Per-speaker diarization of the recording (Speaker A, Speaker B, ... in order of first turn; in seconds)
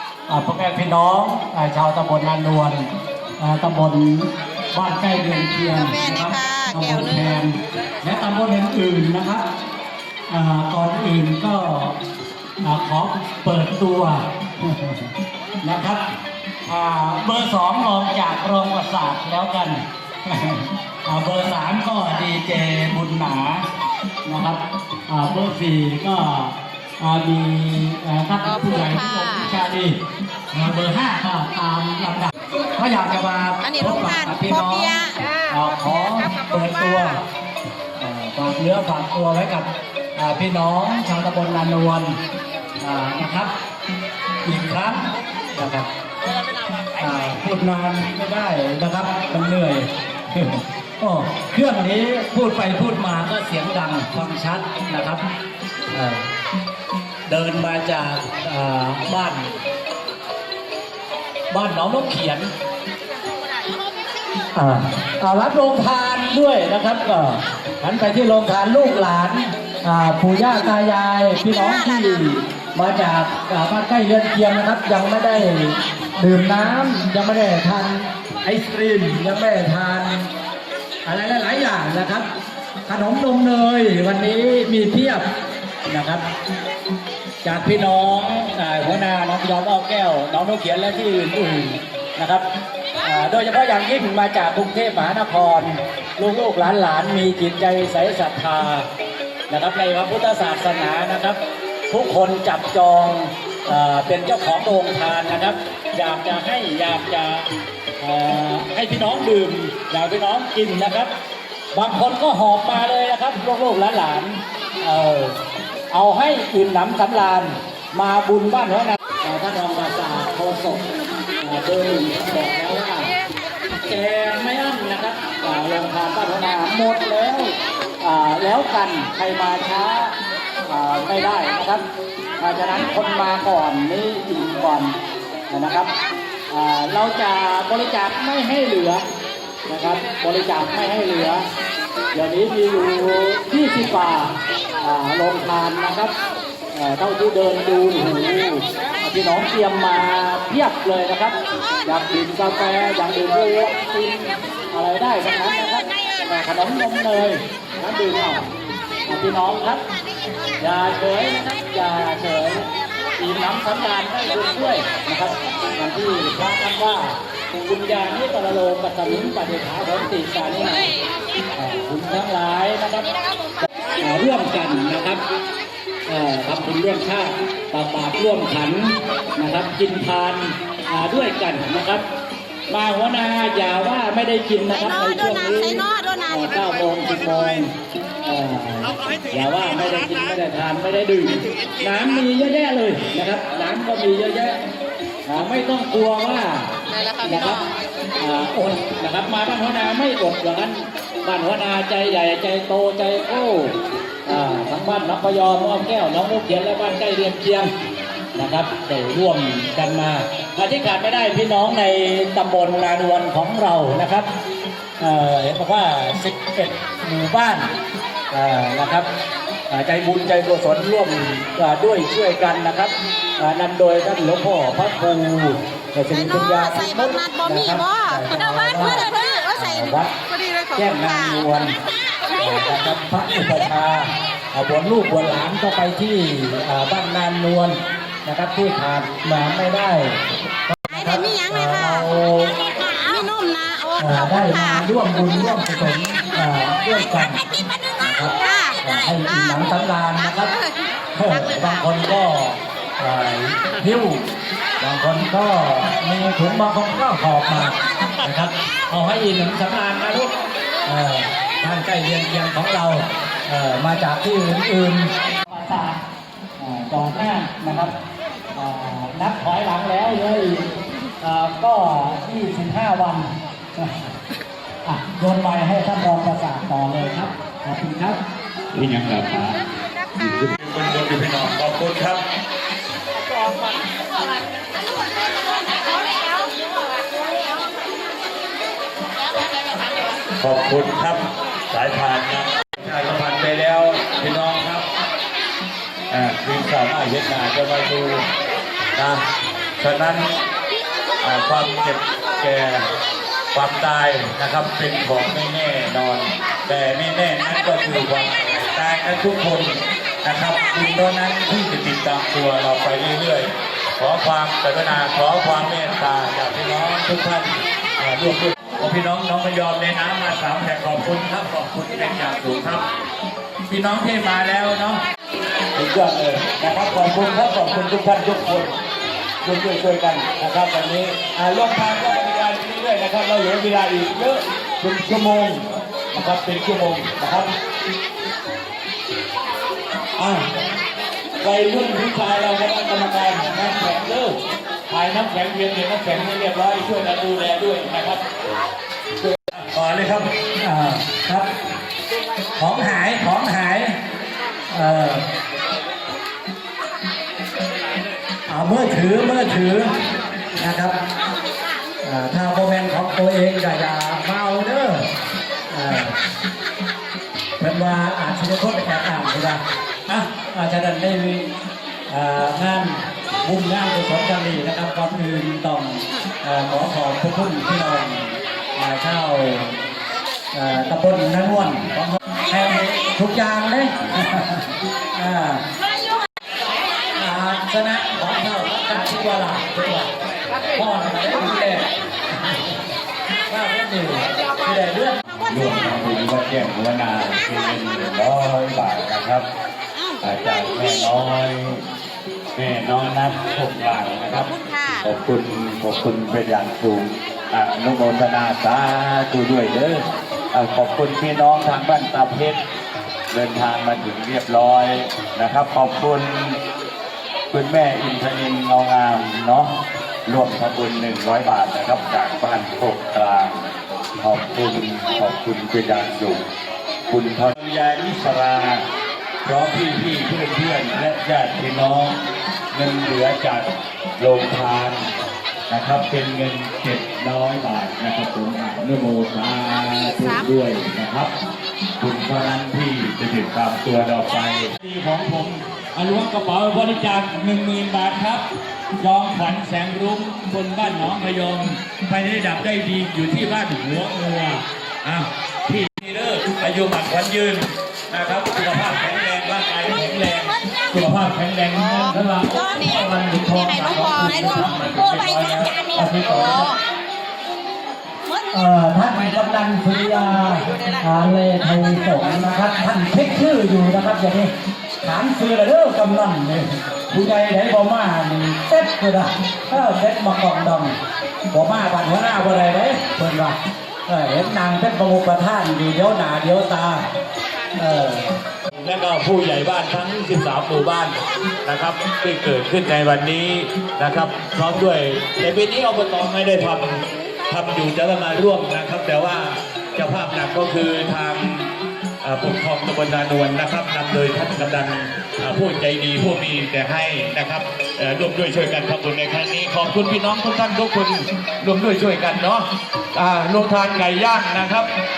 Speaker A: 0.3-9.4, 10.3-12.0, 12.6-15.1, 15.6-16.1, 16.6-23.7, 24.2-30.0, 30.5-34.9, 35.5-37.2, 38.0-42.2, 42.8-43.5, 44.4-45.9, 47.0-55.2, 55.9-56.2, 57.3-59.5, 61.5-62.5, 64.5-80.3, 81.0-82.3, 82.8-85.3, 85.8-86.2, 87.4-92.5, 93.0-98.9, 99.5-107.5, 108.0-111.1, 111.7-115.4, 115.9-120.8, 121.4-123.1, 123.8-131.8, 132.4-135.0, 135.5-135.9, 136.5-139.0, 139.7-141.5, 142.1-146.1, 146.7-158.5, 159.1-159.8, 160.6-162.7, 163.2-170.9, 171.6-173.1, 174.0-175.2, 176.1-182.0, 182.7-194.6, 195.2-197.7, 198.2-207.7, 208.3-214.3, 215.0-217.7, 218.3-219.1, 219.7-230.1, 230.7-231.8, 232.4-242.6, 244.0-247.4, 248.0-250.5, 251.1-254.2, 254.8-260.3, 260.9-266.0, 266.6-267.9, 268.5-270.7, 271.2-274.1, 274.8-278.2, 350.6-351.5, 352.6-354.0, 354.7-355.2, 358.5-359.9, 360.6-361.0, 362.0-365.1, 365.7-366.2, 367.6-371.5, 372.1-379.8, 380.5-385.6, 387.1-390.1, 390.7-392.8, 393.5-395.2, 468.5-481.0, 481.5-487.1, 487.7-488.3
Speaker B: 5.7-7.3, 28.4-29.5, 33.6-35.4, 184.7-186.9, 196.9-197.7, 226.1-228.2, 230.3-231.4, 240.9-242.1, 242.7-244.0, 248.4-248.7, 251.3-251.8, 404.3-405.1, 440.2-440.4, 461.7-466.8, 470.5-471.0
Speaker C: 278.7-279.6, 280.1-282.2, 290.4-294.9, 296.1-298.2, 298.9-299.2, 299.8-300.4, 301.2-302.9, 303.5-322.9, 323.7-325.0, 325.7-328.8, 329.4-337.5, 340.1-340.5, 341.4-344.4, 344.9-348.2, 349.5-350.2, 395.5-399.5, 400.2-401.8, 402.5-404.5, 405.0-412.6, 413.3-416.6, 417.5-419.7, 420.3-423.7, 424.2-426.4, 427.1-428.8, 429.4-432.1, 432.7-433.7, 434.2-435.1, 435.7-441.3, 442.0-448.4, 449.0-466.7, 488.8-501.7, 502.2-514.9